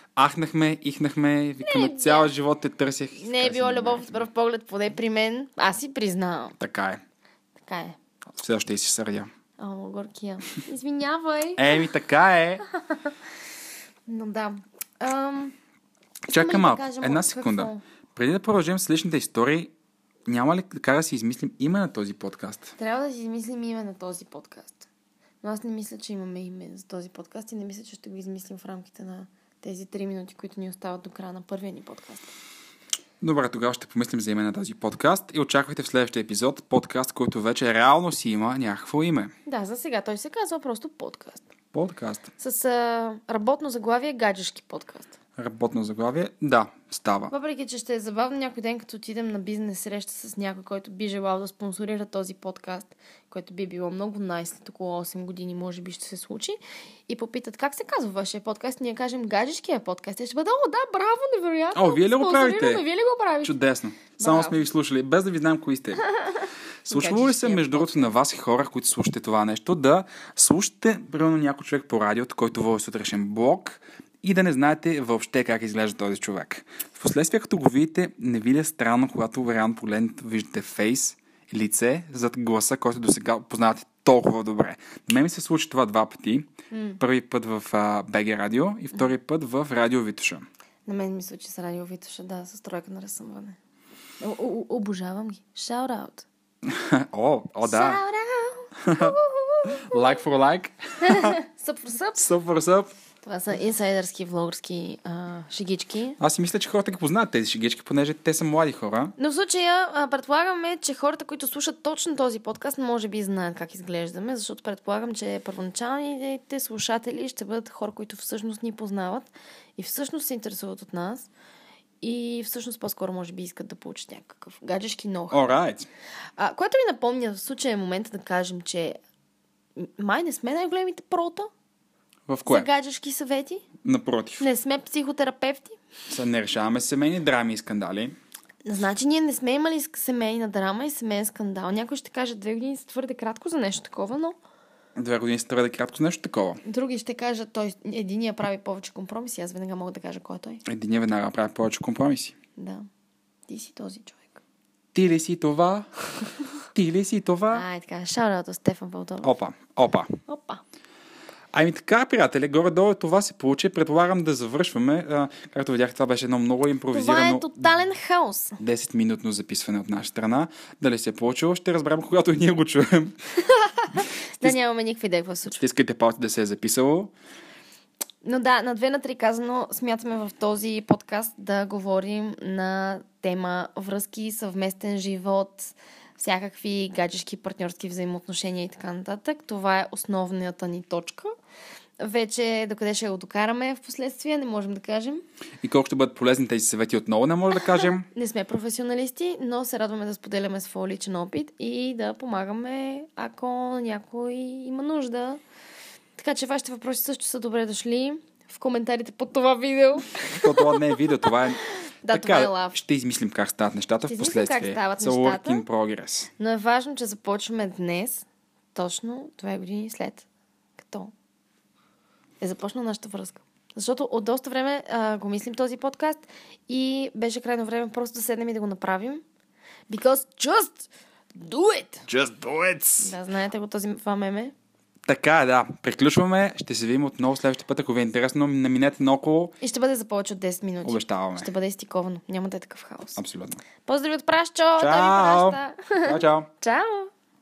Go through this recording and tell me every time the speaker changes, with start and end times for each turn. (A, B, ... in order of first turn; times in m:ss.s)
0:00.2-0:04.2 A
0:01.6-0:02.3 B
0:03.2-0:06.6 B
0:06.6-0:07.0 A
0:07.6-0:08.0 B
0:08.4-0:09.3 A
0:09.6-0:11.8 B
0:11.6-0:12.6 A
0:12.7-0:13.1 B
0:14.1-0:15.5 B
0:16.3-0:19.7 A
0:16.3-0:17.8 B
0:20.2-0:22.7 A
0:22.8-0:24.9 B
0:25.4-0:32.3 B
0:33.2-0:39.3 A
0:39.4-0:41.4 B
0:41.7-0:42.3 A
0:42.4-0:45.2 B
0:45.4-0:47.3 A
0:47.3-1:03.5 B
1:01.7-1:02.8 A
1:03.4-1:06.0 A
1:04.2-1:04.6 B
1:06.8-1:26.5 A
1:06.9-1:08.1 B
1:26.7-1:27.0 B
1:27.0-1:30.4 A
1:30.8-1:33.6 B
1:34.2-1:36.2 B
1:36.6-1:38.0 A
1:37.6-1:40.2 B
1:38.8-1:39.1 A
1:39.7-1:41.4 A
1:41.0-1:42.3 B
1:42.2-1:42.9 A
1:43.2-1:46.2 B
1:46.2-1:49.1 A
1:49.2-2:01.3 B
2:02.0-2:05.4 B
2:05.3-2:05.9 A
2:06.4-2:09.0 B
2:09.8-2:11.5 B
2:12.3-2:12.7 A
2:12.4-2:13.6 B
2:13.8-2:14.4 A
2:14.4-2:15.8 B
2:16.1-2:18.1 A
2:18.6-2:24.4 B
2:25.0-2:26.6 A
2:26.6-2:30.6 B
2:30.6-2:32.3 A
2:32.6-2:32.8 B
2:33.5-2:34.4 B
2:34.9-2:35.9 A
2:36.7-2:37.6 A
2:37.5-2:39.3 B
2:39.2-2:40.1 A
2:40.3-2:40.6 B
2:41.5-2:47.6 A
2:46.9-2:48.6 B
2:48.6-2:53.2 A
2:53.9-2:55.6 B
2:55.5-2:57.1 A
2:58.2-3:11.3 B
3:12.0-3:15.2 B
3:15.6-3:18.0 A
3:18.1-3:25.4 B
3:26.2-3:30.8 B
3:30.3-3:36.3 A
3:32.0-3:32.8 B
3:34.0-3:35.6 B
3:36.4-3:40.2 B
3:40.8-3:41.1 B
3:42.4-3:49.2 B
3:49.9-3:52.0 B
3:52.1-3:53.1 A
3:53.0-3:54.5 B
3:55.0-3:59.5 A
3:59.6-4:03.2 B
4:00.8-4:01.5 A
4:03.2-4:03.6 A
4:03.8-4:07.1 B
4:04.8-4:06.5 A